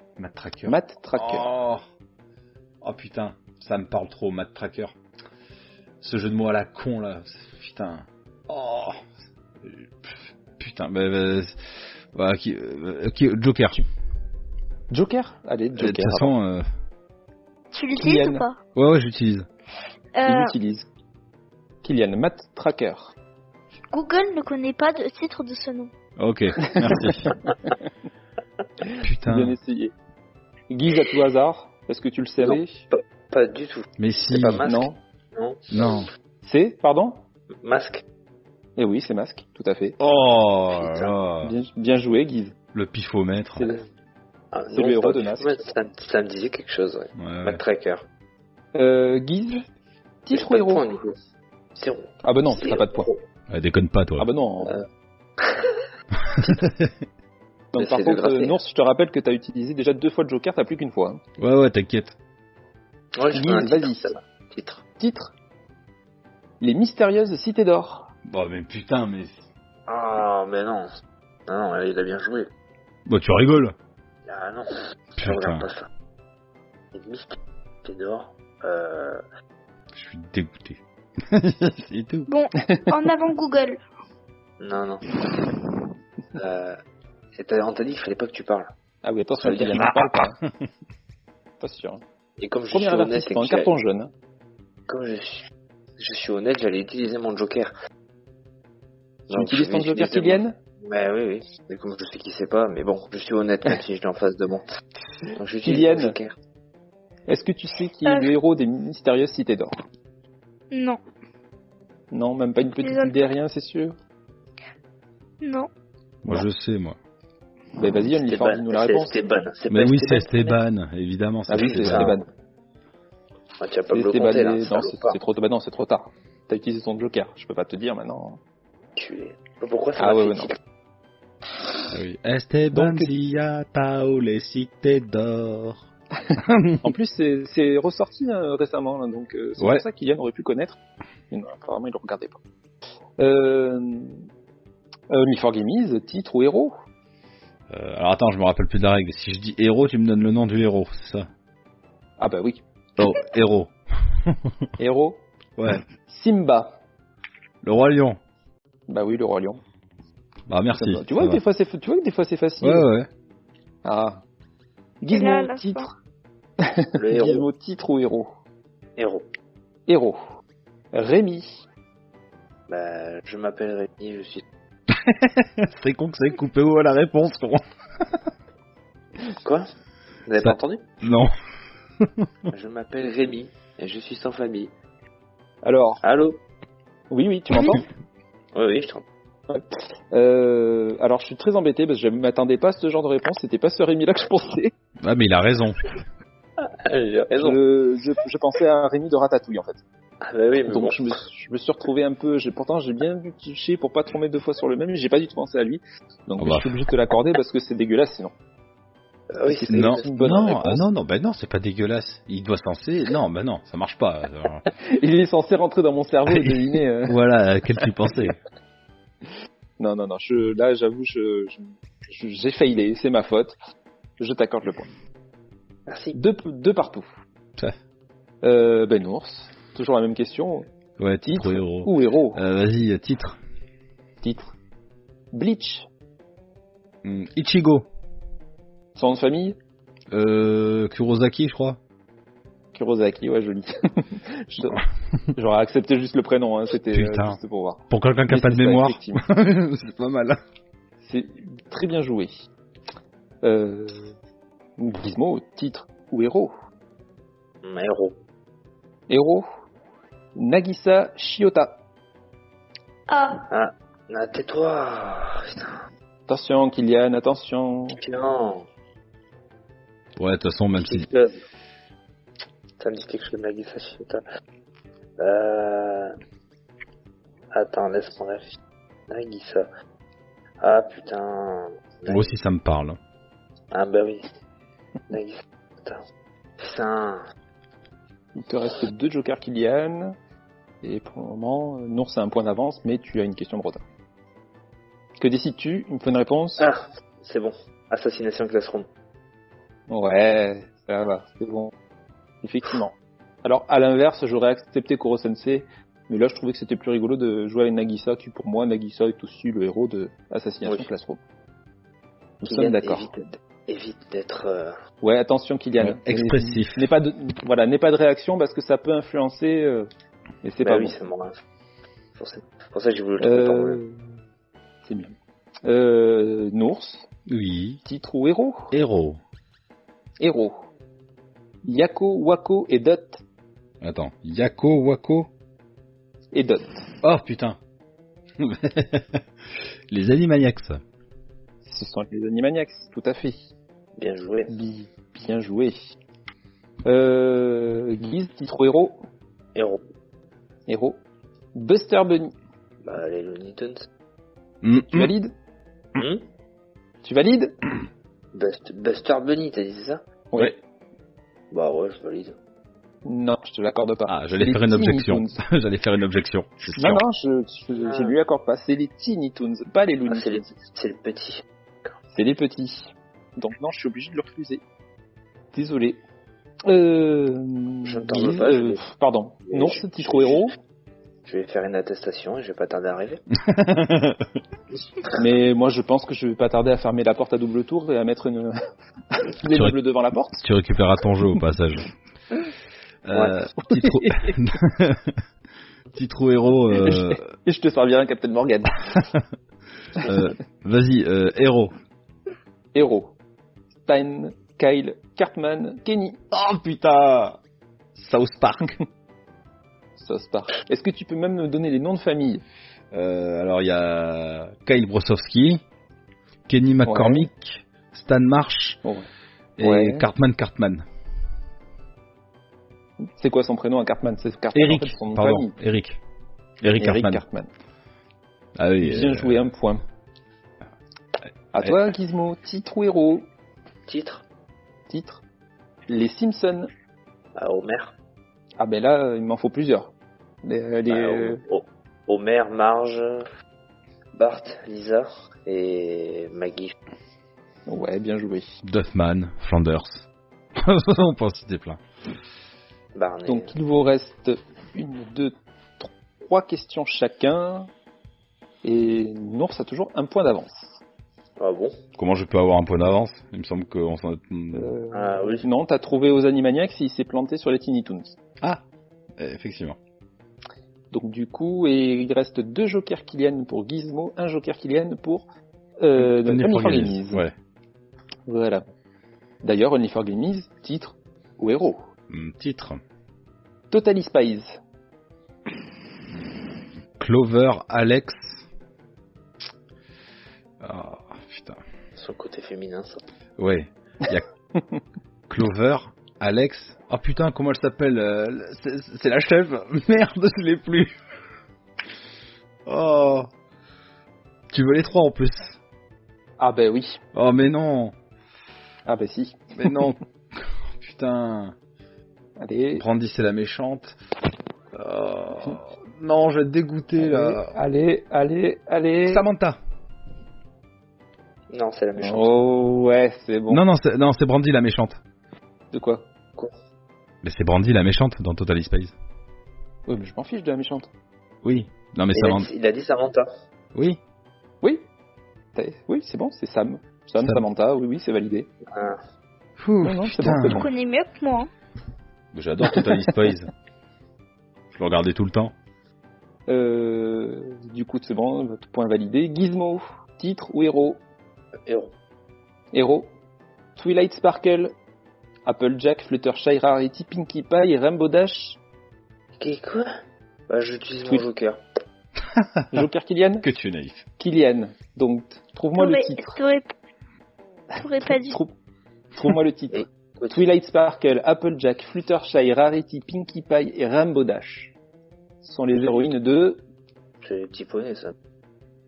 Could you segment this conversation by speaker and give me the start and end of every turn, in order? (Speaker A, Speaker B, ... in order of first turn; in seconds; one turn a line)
Speaker A: 0.2-1.8
Speaker B: 0.7-1.5
Speaker A: 2.8-4.9
Speaker A: 6.0-9.0
Speaker A: 9.6-13.8
Speaker B: 14.9-16.3
Speaker A: 15.8-16.6
Speaker C: 17.7-18.6
Speaker B: 17.9-18.4
Speaker A: 18.7-19.5
Speaker C: 20.1-20.5
Speaker B: 20.2-20.9
Speaker B: 21.8-23.1
Speaker C: 23.9-25.9
Speaker A: 26.2-27.3
Speaker B: 26.7-27.3
Speaker A: 29.0-29.6
Speaker B: 29.2-29.9
Speaker B: 30.7-32.9
Speaker D: 32.4-36.0
Speaker A: 34.0-34.6
Speaker B: 34.6-35.0
Speaker A: 35.7-36.1
Speaker B: 36.4-37.2
Speaker D: 37.6-38.0
Speaker B: 38.8-40.0
Speaker A: 40.0-41.5
Speaker D: 40.7-41.1
Speaker B: 41.4-42.5
Speaker A: 42.7-43.7
Speaker B: 43.5-43.8
Speaker D: 44.5-48.0
Speaker B: 44.7-45.5
Speaker A: 47.1-47.6
Speaker B: 48.7-49.6
Speaker B: 50.2-50.8
Speaker D: 50.3-51.1
Speaker D: 51.7-53.2
Speaker B: 52.2-53.1
Speaker A: 53.5-54.3
Speaker B: 54.2-54.8
Speaker D: 55.4-55.7
Speaker A: 56.3-56.9
Speaker B: 57.7-61.2
Speaker D: 57.8-58.6
Speaker A: 61.4-62.1
Speaker D: 63.1-64.8
Speaker B: 63.3-64.1
Speaker B: 65.0-65.3
Speaker B: 66.6-68.1
Speaker A: 68.2-69.5
Speaker D: 69.9-70.9
Speaker D: 71.5-72.5
Speaker A: 73.1-73.7
Speaker D: 74.2-75.9
Speaker A: 75.2-75.7
Speaker D: 76.9-79.2
Speaker A: 79.9-82.3
Speaker C: 82.3-83.8
Speaker B: 82.6-82.9
Speaker D: 84.6-85.1
Speaker D: 86.3-86.8
Speaker D: 87.3-88.7
Speaker B: 89.0-90.4
Speaker D: 89.4-89.9
Speaker A: 89.8-90.2
Speaker B: 91.6-92.0
Speaker D: 92.4-93.7
Speaker B: 92.7-94.1
Speaker D: 94.9-97.7
Speaker B: 99.3-100.5
Speaker D: 99.3-104.7
Speaker D: 105.3-106.3
Speaker B: 105.6-106.2
Speaker B: 107.3-109.7
Speaker C: 110.7-111.0
Speaker B: 112.1-114.0
Speaker C: 112.8-113.2
Speaker C: 115.4-115.7
Speaker A: 116.2-117.0
Speaker B: 117.8-119.2
Speaker D: 118.1-120.6
Speaker A: 119.7-122.1
Speaker B: 121.5-122.3
Speaker D: 121.5-122.2
Speaker D: 123.6-125.2
Speaker B: 123.9-128.4
Speaker D: 128.9-130.6
Speaker B: 130.0-130.5
Speaker A: 131.9-135.8
Speaker B: 132.7-133.1
Speaker B: 136.3-140.8
Speaker A: 136.4-136.8
Speaker A: 139.6-139.8
Speaker B: 141.3-142.4
Speaker B: 143.2-144.2
Speaker B: 145.1-146.7
Speaker A: 147.7-151.3
Speaker B: 152.2-152.6
Speaker A: 153.0-154.5
Speaker B: 154.8-155.2
Speaker A: 155.6-155.8
Speaker B: 156.0-156.8
Speaker A: 157.6-158.2
Speaker B: 158.9-159.6
Speaker A: 160.5-161.4
Speaker B: 160.7-162.9
Speaker A: 162.6-163.1
Speaker B: 163.8-164.2
Speaker B: 165.0-165.9
Speaker C: 165.1-165.9
Speaker B: 166.6-168.3
Speaker D: 166.9-167.4
Speaker D: 168.9-169.3
Speaker B: 169.9-170.2
Speaker B: 170.9-171.6
Speaker D: 172.7-174.4
Speaker A: 174.9-178.2
Speaker D: 179.4-179.7
Speaker D: 180.2-180.8
Speaker A: 180.4-181.3
Speaker A: 182.0-182.3
Speaker D: 182.5-184.7
Speaker B: 185.6-186.0
Speaker D: 186.0-186.4
Speaker B: 187.1-187.8
Speaker D: 188.5-189.0
Speaker B: 189.5-194.7
Speaker A: 195.0-195.9
Speaker D: 196.8-197.6
Speaker B: 197.3-199.8
Speaker D: 200.2-201.0
Speaker B: 200.7-208.3
Speaker A: 206.4-206.8
Speaker D: 209.3-210.6
Speaker B: 209.4-210.8
Speaker A: 209.7-214.6
Speaker B: 214.8-217.2
Speaker A: 216.3-218.4
Speaker B: 219.8-223.5
Speaker B: 224.2-224.9
Speaker D: 225.9-226.2
Speaker B: 226.1-227.1
Speaker B: 228.4-230.7
Speaker A: 231.0-233.4
Speaker B: 231.2-232.4
Speaker B: 234.2-234.5
Speaker B: 235.3-235.9
Speaker A: 237.0-237.9
Speaker B: 238.9-239.6
Speaker A: 240.1-241.8
Speaker B: 242.7-249.2
Speaker A: 246.9-247.4
Speaker A: 247.9-250.4
Speaker B: 251.0-252.4
Speaker B: 253.4-254.1
Speaker B: 254.8-256.5
Speaker D: 257.6-258.1
Speaker B: 259.1-259.4
Speaker B: 260.3-261.8
Speaker C: 263.1-263.4
Speaker D: 263.5-265.8
Speaker B: 266.3-268.0
Speaker D: 268.0-268.7
Speaker A: 270.2-271.1
Speaker D: 270.8-271.4
Speaker D: 272.8-274.2
Speaker D: 275.2-276.1
Speaker D: 277.5-278.6
Speaker D: 279.1-279.7
Speaker D: 280.6-282.3
Speaker A: 282.1-283.0
Speaker D: 283.7-284.3
Speaker D: 285.1-286.0
Speaker D: 286.6-287.2
Speaker B: 288.3-290.1
Speaker B: 290.8-293.8
Speaker B: 295.2-296.7
Speaker D: 296.6-298.9
Speaker B: 299.9-301.7
Speaker B: 302.4-311.2
Speaker B: 312.4-313.1
Speaker D: 312.4-314.8
Speaker B: 315.0-319.9
Speaker A: 315.8-316.9
Speaker B: 320.4-321.0
Speaker D: 320.6-321.4
Speaker D: 322.1-323.8
Speaker B: 323.2-324.0
Speaker B: 324.8-327.1
Speaker A: 327.3-327.8
Speaker B: 327.8-328.7
Speaker A: 328.7-329.2
Speaker B: 330.2-330.6
Speaker B: 331.6-333.2
Speaker A: 333.8-335.3
Speaker B: 336.3-336.9
Speaker A: 337.0-337.6
Speaker A: 338.4-340.8
Speaker B: 341.6-343.4
Speaker D: 344.0-344.5
Speaker B: 344.5-345.8
Speaker B: 346.8-349.0
Speaker D: 349.5-349.8
Speaker B: 350.7-351.0
Speaker B: 351.5-352.3
Speaker D: 352.8-353.9
Speaker A: 354.6-355.1
Speaker B: 354.7-355.3
Speaker D: 355.9-356.3
Speaker B: 357.0-357.6
Speaker D: 358.3-360.0
Speaker B: 360.3-360.6
Speaker D: 361.5-362.4
Speaker B: 363.0-365.4
Speaker A: 364.1-367.0
Speaker B: 366.7-370.5
Speaker D: 367.8-368.1
Speaker D: 370.1-371.9
Speaker B: 372.1-374.6
Speaker B: 375.5-376.0
Speaker B: 376.7-380.5
Speaker D: 377.8-378.8
Speaker D: 379.5-380.4
Speaker D: 381.2-383.2
Speaker A: 383.4-384.3
Speaker B: 385.1-388.5
Speaker B: 389.1-390.4
Speaker A: 389.5-389.8
Speaker A: 390.4-391.9
Speaker A: 393.0-395.2
Speaker D: 393.1-393.4
Speaker B: 393.6-394.4
Speaker A: 395.9-397.3
Speaker B: 396.7-399.0
Speaker A: 400.0-401.7
Speaker B: 402.7-403.1
Speaker B: 403.9-406.2
Speaker A: 406.3-407.4
Speaker A: 407.9-408.8
Speaker B: 410.0-412.4
Speaker A: 412.9-415.6
Speaker A: 416.5-418.8
Speaker B: 416.9-417.3
Speaker A: 419.6-420.8
Speaker B: 419.6-420.1
Speaker B: 423.0-425.6
Speaker A: 424.5-426.0
Speaker A: 426.6-427.2
Speaker B: 426.8-427.5
Speaker A: 428.6-429.4
Speaker B: 428.8-429.8
Speaker B: 431.5-433.3
Speaker D: 433.9-434.2
Speaker B: 434.9-435.2
Speaker B: 435.9-436.7
Speaker D: 437.4-437.9
Speaker B: 438.6-439.9
Speaker B: 440.4-441.4
Speaker D: 440.9-443.2
Speaker D: 444.1-446.7
Speaker B: 447.7-448.5
Speaker A: 448.6-451.8
Speaker D: 452.9-453.5
Speaker B: 453.2-457.7
Speaker B: 458.6-460.8
Speaker D: 461.4-461.8
Speaker A: 462.0-464.8
Speaker B: 464.5-468.1
Speaker D: 464.9-465.4
Speaker A: 469.2-469.8
Speaker B: 470.9-475.2
Speaker B: 475.8-477.2
Speaker A: 475.9-477.3
Speaker B: 478.3-478.6
Speaker B: 479.4-481.8
Speaker A: 482.1-482.8
Speaker B: 483.7-484.6
Speaker A: 487.0-488.4
Speaker A: 490.6-491.6
Speaker D: 492.0-493.0
Speaker A: 493.4-494.2
Speaker A: 495.3-500.9
Speaker A: 502.6-503.3
Speaker A: 504.5-505.6
Speaker B: 506.4-507.0
Speaker A: 507.1-507.9
Speaker B: 508.9-509.8
Speaker A: 509.6-511.5
Speaker B: 512.4-512.8
Speaker A: 512.8-514.0
Speaker A: 514.7-517.5
Speaker B: 517.0-519.2
Speaker A: 519.0-519.6
Speaker D: 521.5-522.4
Speaker B: 522.0-523.6
Speaker A: 523.5-525.0
Speaker B: 525.7-526.1
Speaker A: 527.2-528.9
Speaker B: 529.9-530.9
Speaker A: 531.4-532.5
Speaker D: 532.1-533.3
Speaker A: 533.7-534.0
Speaker B: 535.5-538.5
Speaker D: 538.7-539.0
Speaker A: 539.6-540.7
Speaker B: 539.8-540.7
Speaker C: 540.4-541.5
Speaker A: 542.3-543.5
Speaker A: 544.7-545.5
Speaker B: 546.5-551.0
Speaker D: 551.7-551.9
Speaker B: 552.7-553.1
Speaker B: 553.8-554.7
Speaker B: 555.5-558.6
Speaker D: 559.4-559.9
Speaker D: 560.5-561.6
Speaker A: 562.3-562.9
Speaker B: 562.7-563.5
Speaker A: 563.4-564.0
Speaker B: 564.2-566.4
Speaker C: 565.8-566.7
Speaker C: 567.8-568.4
Speaker B: 568.3-568.5
Speaker B: 569.1-574.7
Speaker D: 569.7-570.4
Speaker B: 575.4-576.6
Speaker D: 577.2-578.1